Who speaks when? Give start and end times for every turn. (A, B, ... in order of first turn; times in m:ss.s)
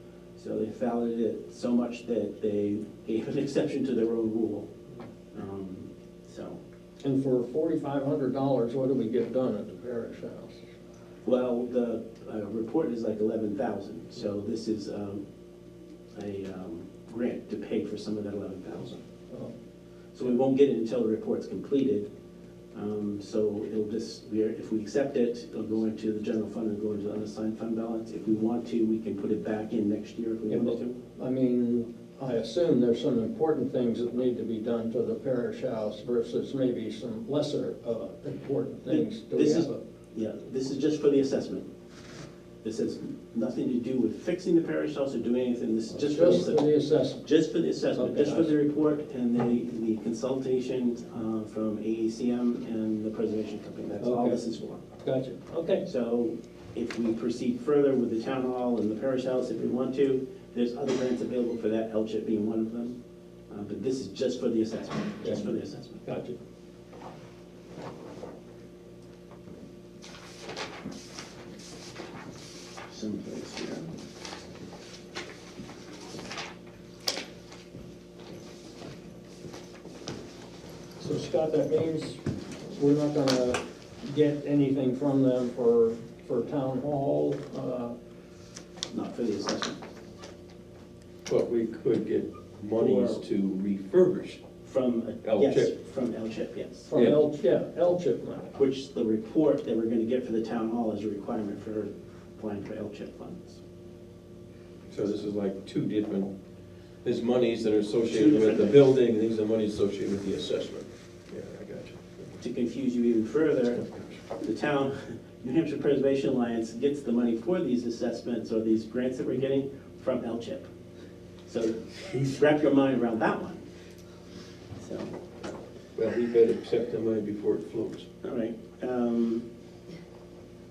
0:00.4-0:04.7 A
0:05.3-0:06.6 A
0:07.0-0:10.6 B
0:11.2-0:15.2 A
0:16.1-0:19.0 A
0:20.1-0:22.1 A
0:22.7-0:31.0 A
0:30.5-0:39.8 B
0:38.9-0:41.7 A
0:42.6-0:46.6 A
0:45.9-0:47.3 B
0:47.2-0:54.8 A
0:47.9-0:48.5 B
0:54.0-0:54.4 B
0:55.0-0:55.9 B
0:55.8-1:03.0 A
1:03.5-1:06.0 A
1:05.2-1:06.4 B
1:12.9-1:13.9 A
1:21.0-1:28.0 B
1:28.9-1:29.8 A
1:31.2-1:34.4 C
1:32.8-1:33.2 A
1:34.6-1:36.9 A
1:35.2-1:35.7 C
1:36.9-1:38.5 B
1:38.6-1:43.6 A
1:44.9-1:46.3 C
1:47.0-1:52.3 C
1:48.1-1:48.8 A
1:52.4-1:53.8 A
1:53.7-1:54.2 C
1:54.4-2:00.7 A
2:01.4-2:03.6 A
2:04.8-2:05.1 A
2:06.0-2:08.0 C
2:08.2-2:09.4 A